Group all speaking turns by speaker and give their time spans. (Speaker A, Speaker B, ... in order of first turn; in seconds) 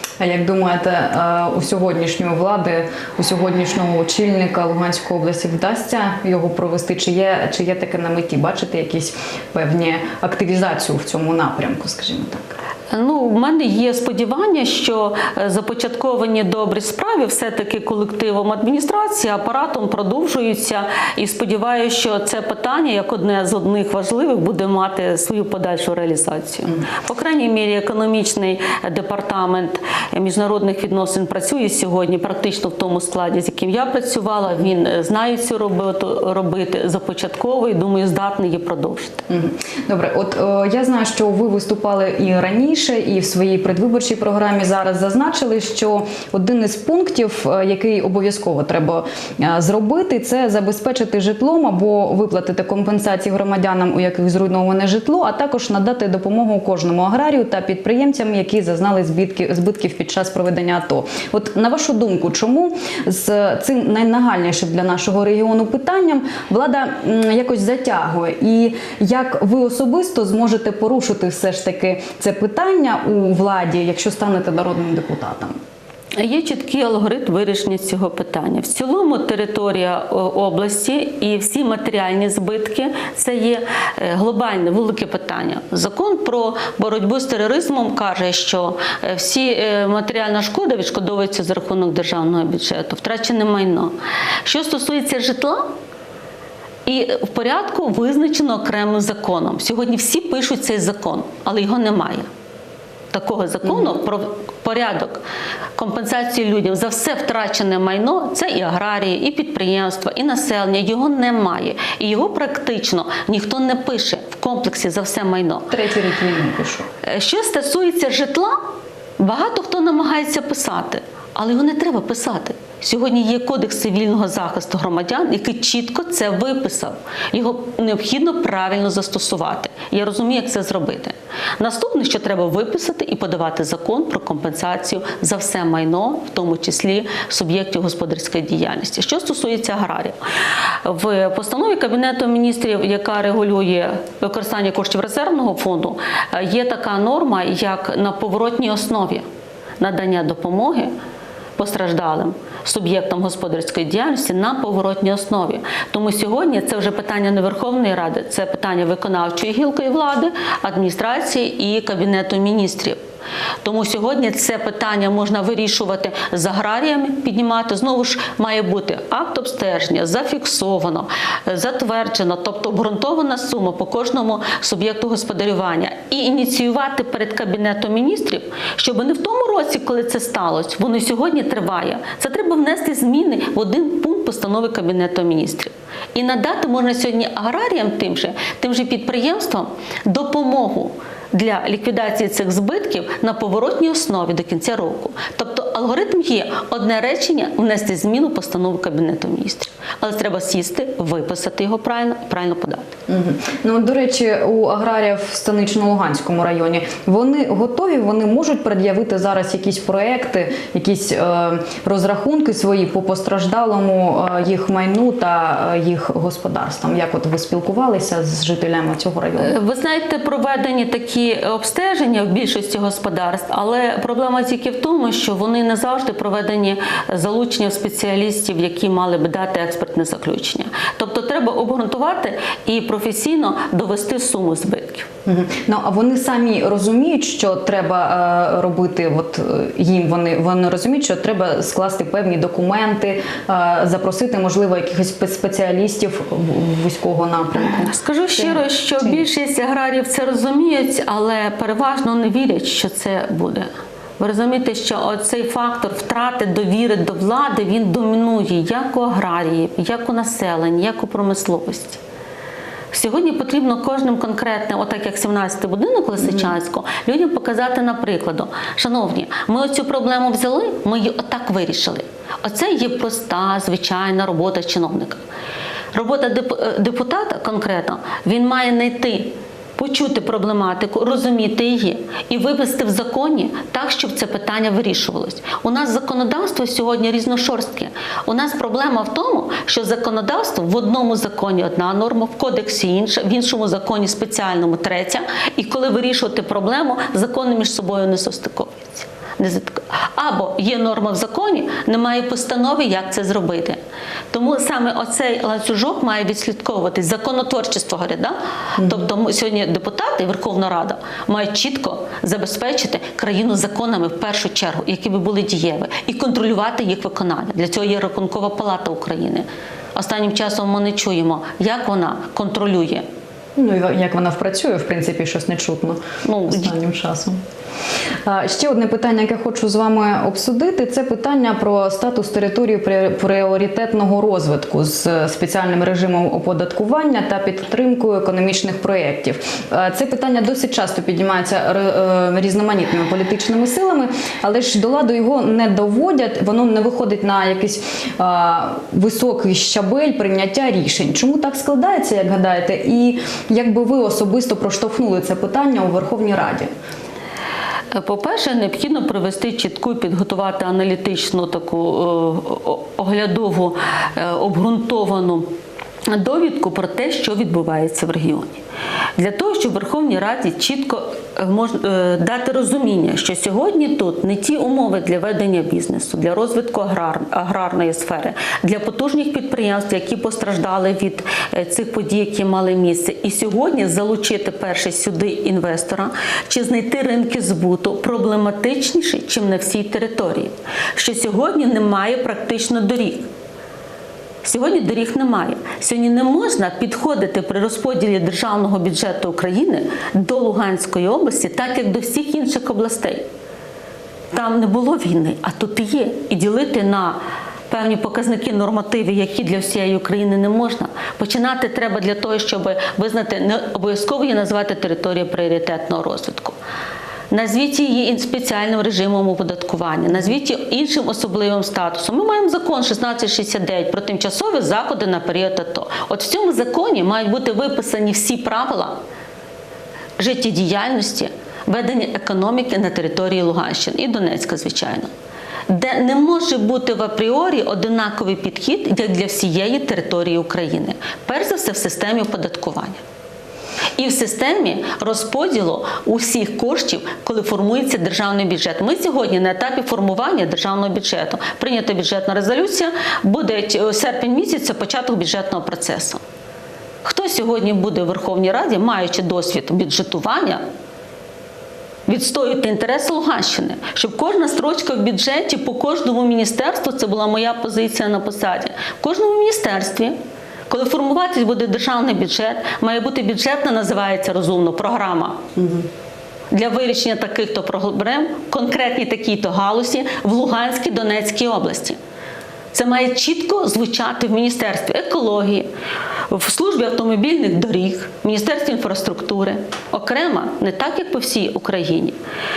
Speaker A: 0.2-12.6, 39.3-75.6, 103.7-103.9, 115.7-116.9, 203.1-219.6, 235.3-249.2, 308.8-309.1, 323.6-327.4, 328.2-356.7, 475.6-475.9
Speaker B: 12.9-39.3, 76.2-93.9, 94.5-95.7, 96.8-102.3, 103.1-105.2, 105.8-115.7, 117.0-118.6, 119.2-140.2, 140.8-149.2, 149.8-150.9, 151.6-163.0, 163.6-202.9, 219.4-235.1, 247.9-262.0, 262.9-275.2, 275.9-303.8, 304.3-323.1, 326.2-326.7, 357.9-365.5, 366.1-368.6, 369.2-393.3, 394.4-403.2, 404.3-416.6, 417.3-429.0, 430.2-435.1, 435.7-443.0, 444.0-456.2, 457.0-460.6, 462.1-470.2, 470.7-475.4, 476.5-482.0, 482.7-485.7, 486.3-492.2